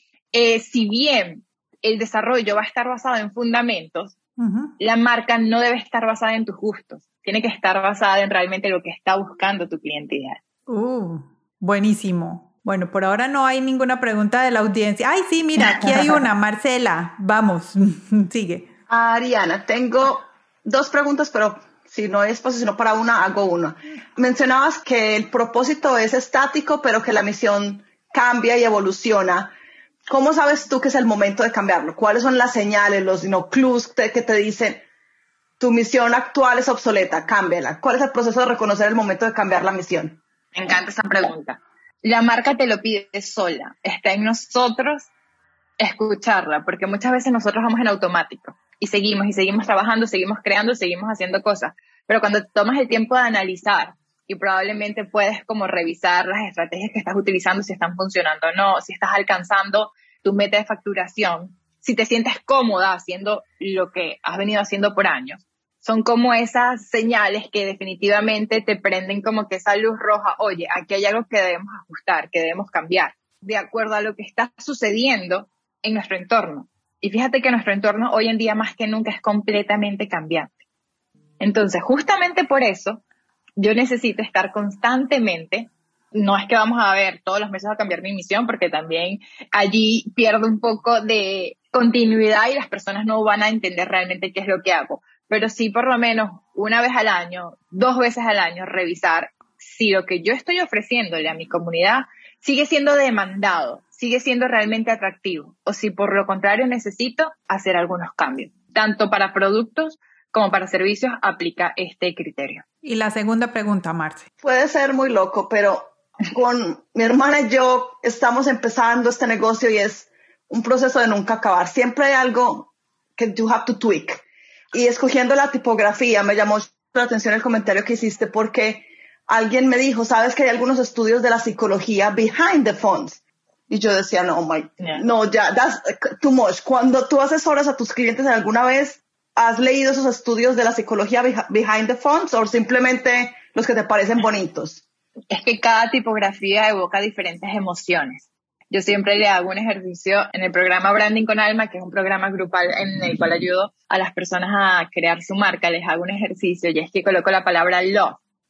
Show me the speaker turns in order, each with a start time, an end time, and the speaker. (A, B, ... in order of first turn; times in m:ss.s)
0:00.3-0:04.1 A
0:04.4-0:04.7 B
0:04.8-0:10.4 A
0:10.7-0:18.7 B
0:15.6-0:16.2 A
0:18.9-0:29.5 C
0:30.1-0:34.8 C
0:35.6-0:40.2 C
0:40.5-0:45.1 A
0:45.8-1:20.5 A
1:21.4-1:23.0 A
1:23.6-1:52.6 A
1:52.8-1:54.3 B
1:54.4-2:24.8 C
2:25.3-2:38.2 A